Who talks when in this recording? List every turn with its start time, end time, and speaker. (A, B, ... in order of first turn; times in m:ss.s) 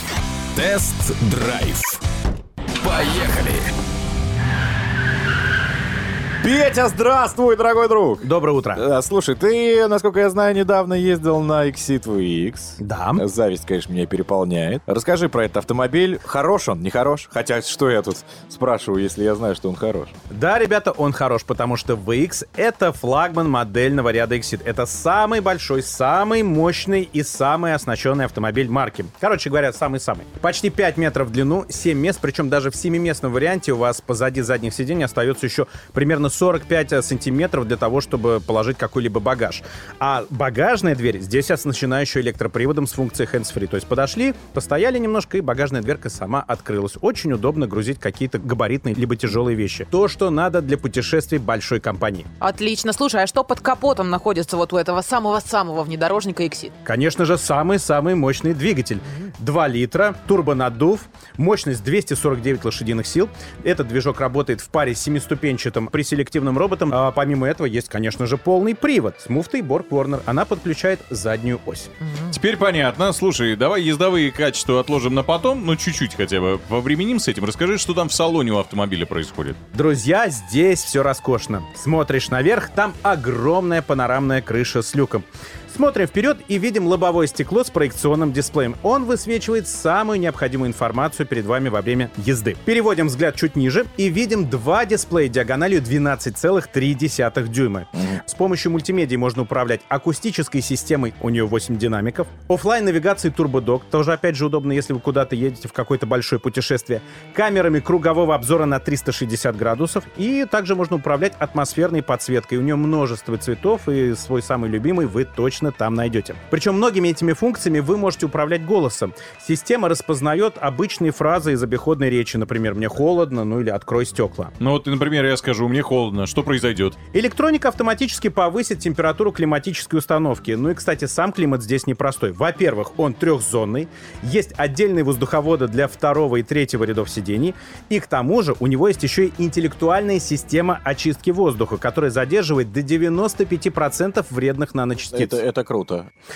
0:00.5-0:02.0 A
0:02.8-0:03.7 A
0:06.4-0:20.1 B
0:08.2-0:08.8 C
0:12.8-0:13.2 C
0:20.3-0:52.3 C
0:52.4-0:56.7 D
0:56.8-1:11.9 C
1:12.0-1:12.4 D
1:12.3-1:19.6 E
1:19.7-2:04.5 C
2:04.6-2:07.0 E
2:07.1-2:25.4 C
2:25.2-2:26.0 B